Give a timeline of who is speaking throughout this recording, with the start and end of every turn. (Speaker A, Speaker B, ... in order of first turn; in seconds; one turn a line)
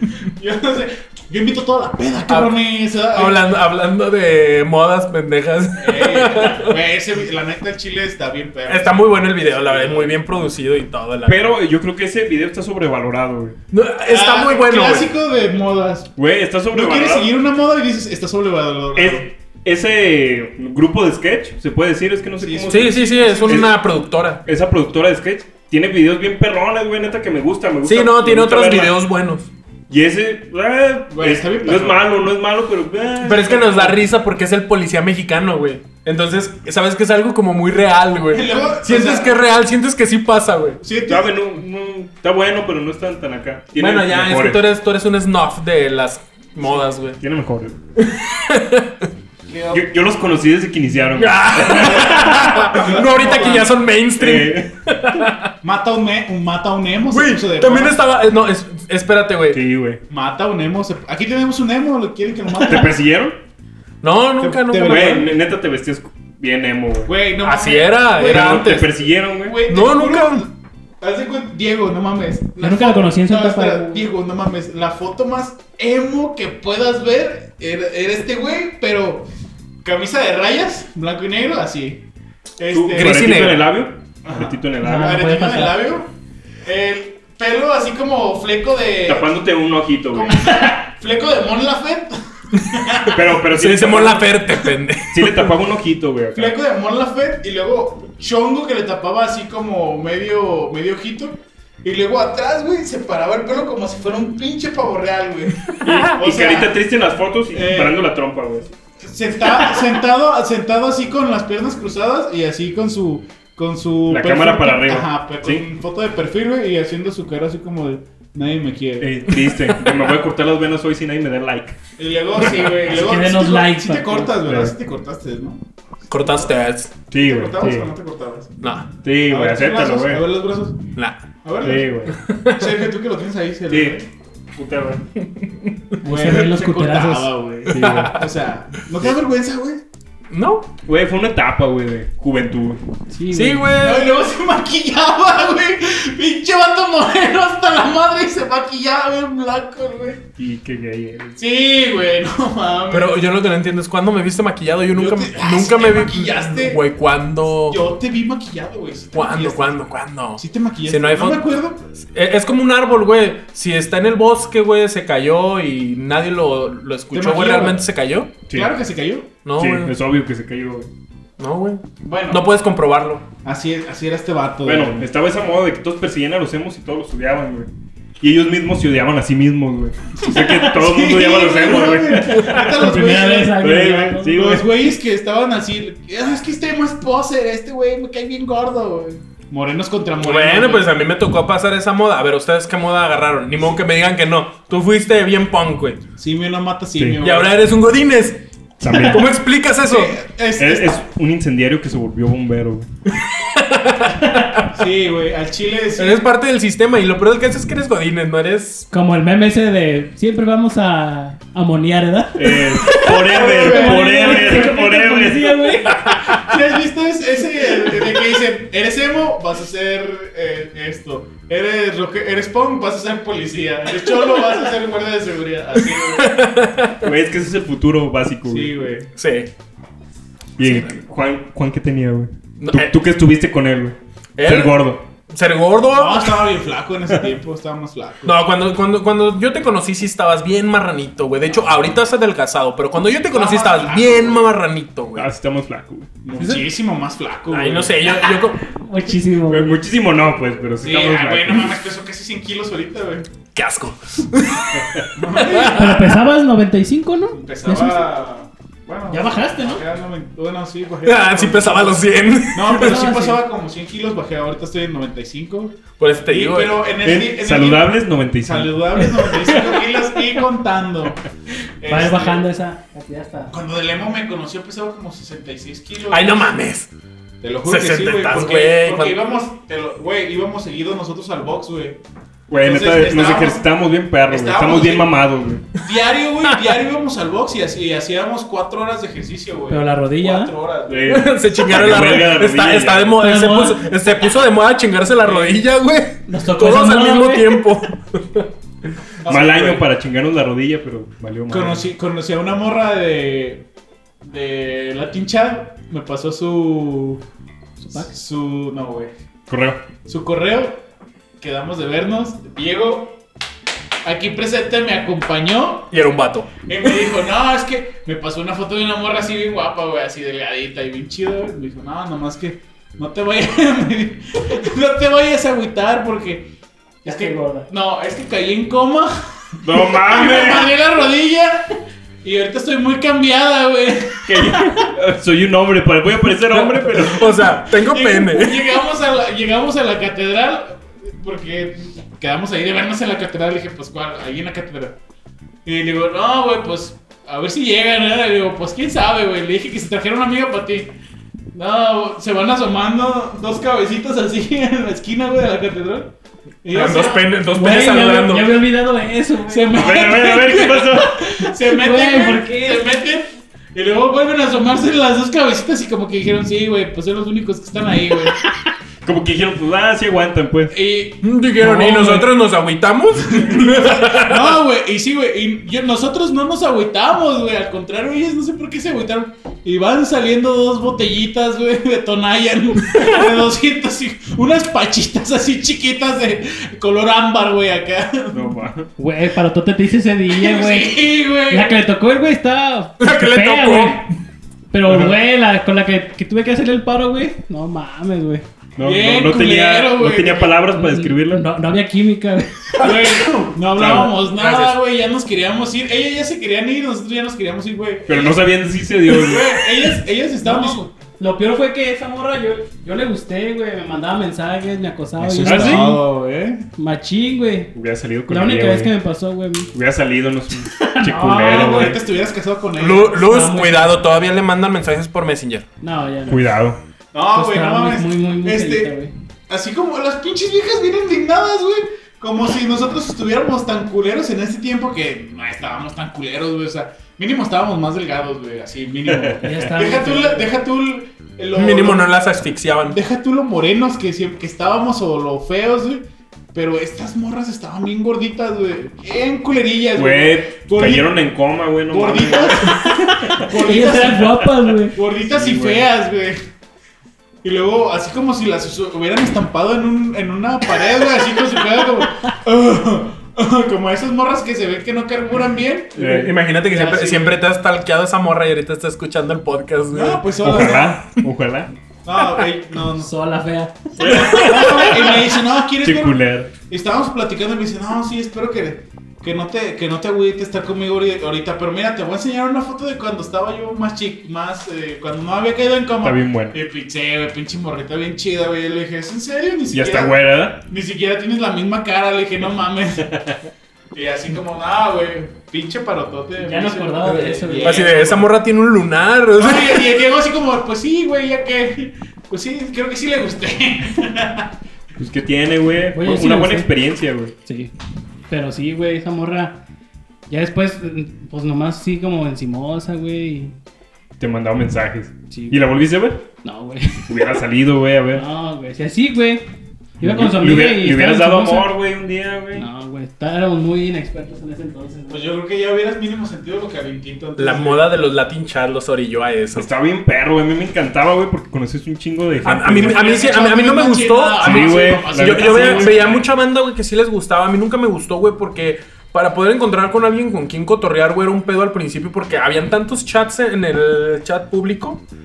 Speaker A: 0.2-3.5
Speaker B: 2.3-2.5
Speaker B: 3.1-6.8
Speaker A: 5.8-10.2
Speaker B: 8.7-11.4
Speaker C: 11.2-13.6
Speaker B: 13.7-15.1
Speaker A: 14.1-16.1
Speaker C: 16.2-17.3
Speaker A: 16.7-19.3
Speaker C: 18.9-23.7
Speaker A: 22.4-23.7
Speaker B: 22.7-24.4
Speaker C: 24.4-28.9
Speaker B: 27.8-29.5
Speaker C: 29.9-34.0
Speaker A: 31.1-32.0
Speaker B: 33.2-40.8
Speaker A: 38.3-39.4
Speaker A: 40.8-41.3
Speaker C: 41.1-44.6
Speaker B: 43.8-47.2
Speaker A: 46.6-46.9
Speaker C: 47.2-47.8
Speaker B: 48.0-48.9
Speaker A: 49.5-49.8
Speaker C: 49.7-52.5
Speaker B: 51.2-55.5
Speaker A: 51.6-53.7
Speaker C: 54.2-54.7
Speaker A: 55.6-58.0
Speaker B: 57.1-59.6
Speaker C: 59.5-60.0
Speaker A: 60.1-63.0
Speaker C: 62.6-63.4
Speaker B: 64.0-65.2
Speaker A: 64.4-65.3
Speaker C: 64.8-67.1
Speaker A: 67.0-79.3
Speaker B: 67.4-68.9
Speaker C: 68.2-69.6
Speaker B: 69.7-70.4
Speaker D: 72.6-74.0
Speaker A: 79.8-82.0
Speaker A: 82.6-83.6
Speaker C: 82.7-85.2
Speaker B: 82.9-83.7
Speaker A: 84.2-86.1
Speaker D: 84.8-85.8
Speaker A: 86.6-89.3
Speaker C: 89.0-90.5
Speaker A: 90.1-93.2
Speaker C: 93.1-94.4
Speaker B: 93.5-95.5
Speaker C: 95.1-96.6
Speaker A: 96.3-106.8
Speaker B: 105.8-106.1
Speaker C: 105.8-108.7
Speaker A: 107.5-108.0
Speaker A: 109.0-119.2
Speaker C: 114.1-115.7
Speaker C: 119.0-121.8
Speaker A: 122.0-125.6
Speaker D: 122.8-124.4
Speaker C: 124.4-124.7
Speaker B: 126.1-126.9
Speaker A: 126.2-126.5
Speaker C: 127.1-127.9
Speaker A: 127.1-128.6
Speaker B: 128.6-128.8
Speaker C: 129.0-130.2
Speaker A: 129.3-130.8
Speaker A: 131.4-131.9
Speaker C: 131.6-132.2
Speaker B: 132.2-132.7
Speaker A: 132.5-134.1
Speaker C: 133.7-134.0
Speaker C: 134.5-135.0
Speaker D: 136.0-137.3
Speaker A: 136.0-139.8
Speaker C: 137.7-138.1
Speaker B: 137.7-138.2
Speaker B: 140.3-140.7
Speaker C: 140.8-142.8
Speaker D: 143.1-143.7
Speaker B: 143.3-144.1
Speaker A: 143.7-150.2
Speaker C: 150.4-151.4
Speaker A: 151.4-153.2
Speaker B: 152.9-157.8
Speaker A: 154.9-156.8
Speaker A: 157.7-159.8
Speaker B: 159.1-161.4
Speaker A: 160.4-161.8
Speaker B: 162.0-168.3
Speaker A: 167.1-167.8
Speaker A: 168.5-169.3
Speaker B: 169.4-169.9
Speaker C: 169.6-170.9
Speaker B: 171.4-173.2
Speaker A: 172.0-172.4
Speaker A: 173.4-175.1
Speaker C: 174.6-177.7
Speaker C: 178.2-182.9
Speaker A: 180.2-190.9
Speaker B: 182.3-182.6
Speaker D: 182.6-184.3
Speaker C: 183.6-184.7
Speaker B: 190.2-196.0
Speaker A: 196.2-197.6
Speaker B: 197.2-200.2
Speaker C: 198.8-199.3
Speaker A: 199.8-201.0
Speaker C: 200.6-202.9
Speaker B: 203.1-204.7
Speaker A: 204.7-206.2
Speaker B: 205.9-208.9
Speaker D: 208.9-216.0
Speaker C: 212.3-215.8
Speaker A: 213.1-214.8
Speaker B: 216.1-216.4
Speaker A: 216.3-226.3
Speaker B: 225.8-227.0
Speaker C: 227.0-228.7
Speaker A: 228.5-229.1
Speaker B: 229.2-229.5
Speaker C: 230.6-235.0
Speaker B: 230.6-231.0
Speaker B: 232.6-232.9
Speaker B: 234.4-236.6
Speaker A: 235.9-238.3
Speaker B: 238.2-245.3
Speaker A: 243.3-244.5
Speaker C: 245.1-246.1
Speaker A: 246.2-247.9
Speaker B: 247.5-248.6
Speaker D: 248.6-249.8
Speaker C: 249.5-251.8
Speaker A: 250.8-253.3
Speaker B: 253.5-256.1
Speaker C: 254.7-255.1
Speaker A: 255.1-256.1
Speaker D: 255.6-258.1
Speaker A: 257.3-271.2
Speaker D: 259.1-259.8
Speaker B: 261.0-263.1
Speaker D: 262.7-263.4
Speaker B: 266.0-266.8
Speaker C: 267.0-269.1
Speaker D: 269.4-269.6
Speaker A: 271.8-272.4
Speaker D: 271.9-273.5
Speaker A: 273.5-276.6
Speaker B: 276.1-276.9
Speaker A: 277.4-282.0
Speaker B: 277.6-279.2
Speaker C: 282.5-285.6
Speaker A: 282.6-283.7
Speaker A: 284.3-285.2
Speaker A: 285.8-291.3
Speaker D: 289.7-290.5
Speaker C: 290.9-293.2
Speaker B: 291.1-298.5
Speaker D: 293.2-293.9
Speaker A: 295.2-295.6
Speaker D: 296.3-297.6
Speaker A: 299.2-299.8
Speaker C: 299.3-301.8
Speaker A: 301.5-303.7
Speaker A: 304.2-307.2
Speaker D: 307.8-308.1
Speaker A: 307.9-309.1
Speaker C: 309.5-309.8
Speaker A: 310.1-310.8
Speaker A: 311.4-313.2
Speaker A: 314.0-315.9
Speaker B: 315.9-316.9
Speaker A: 316.6-326.5
Speaker D: 327.0-327.7
Speaker A: 327.0-334.6
Speaker C: 329.6-330.7
Speaker C: 334.3-337.4
Speaker B: 336.5-338.8
Speaker A: 337.7-345.0
Speaker A: 345.6-350.9
Speaker A: 351.5-356.1
Speaker A: 356.6-357.2
Speaker B: 356.7-358.5
Speaker D: 357.5-359.9
Speaker A: 359.5-368.4
Speaker C: 359.7-361.3
Speaker D: 361.6-362.9
Speaker C: 369.0-370.7
Speaker A: 370.7-372.2
Speaker B: 371.2-374.6
Speaker D: 371.6-372.2
Speaker A: 373.3-388.4
Speaker C: 388.3-388.9
Speaker D: 389.0-394.1
Speaker A: 390.3-391.7
Speaker B: 393.0-394.1
Speaker D: 394.7-398.4
Speaker C: 394.9-395.1
Speaker C: 398.8-401.4
Speaker A: 398.8-400.6
Speaker D: 400.7-403.1
Speaker A: 402.8-408.4
Speaker B: 402.8-403.1
Speaker C: 403.7-404.1
Speaker B: 404.2-404.8
Speaker C: 408.1-409.6
Speaker A: 409.1-410.9
Speaker D: 410.4-416.0
Speaker A: 415.2-416.6
Speaker C: 415.3-416.0
Speaker D: 416.8-417.7
Speaker C: 417.7-418.9
Speaker D: 418.3-419.7
Speaker C: 419.7-422.0
Speaker D: 420.7-422.0
Speaker A: 421.2-423.2
Speaker B: 422.8-425.6
Speaker D: 423.2-423.9
Speaker D: 425.8-426.4
Speaker C: 426.3-426.8
Speaker A: 427.1-428.9
Speaker D: 427.3-429.1
Speaker A: 429.5-442.1
Speaker C: 439.1-439.4
Speaker D: 439.4-440.5
Speaker B: 441.5-443.0
Speaker A: 442.8-451.2
Speaker C: 449.9-453.4
Speaker A: 451.9-456.4
Speaker D: 453.2-455.0
Speaker C: 455.2-455.9
Speaker A: 457.4-466.2
Speaker C: 465.9-466.3
Speaker B: 466.0-470.9
Speaker A: 466.7-467.3
Speaker A: 469.9-470.9
Speaker C: 470.4-471.7
Speaker A: 472.0-473.1
Speaker D: 473.0-475.2
Speaker A: 474.0-493.1
Speaker B: 474.0-474.9
Speaker C: 475.8-476.5
Speaker C: 486.0-486.6
Speaker C: 489.7-490.6
Speaker A: 493.9-498.3
Speaker D: 496.4-497.9
Speaker B: 497.6-499.8
Speaker A: 499.4-504.5
Speaker C: 505.0-507.3
Speaker D: 505.9-506.7
Speaker D: 507.4-507.7
Speaker D: 508.3-509.6
Speaker D: 510.3-513.5
Speaker C: 514.2-516.2
Speaker D: 515.3-515.6
Speaker D: 516.4-517.4
Speaker C: 517.1-518.2
Speaker D: 518.1-519.4
Speaker D: 520.0-521.7
Speaker C: 520.0-522.6
Speaker D: 522.5-525.2
Speaker A: 525.1-527.8
Speaker B: 527.4-529.7
Speaker C: 529.5-533.0
Speaker B: 532.4-545.0
Speaker A: 532.7-536.3
Speaker C: 534.4-536.0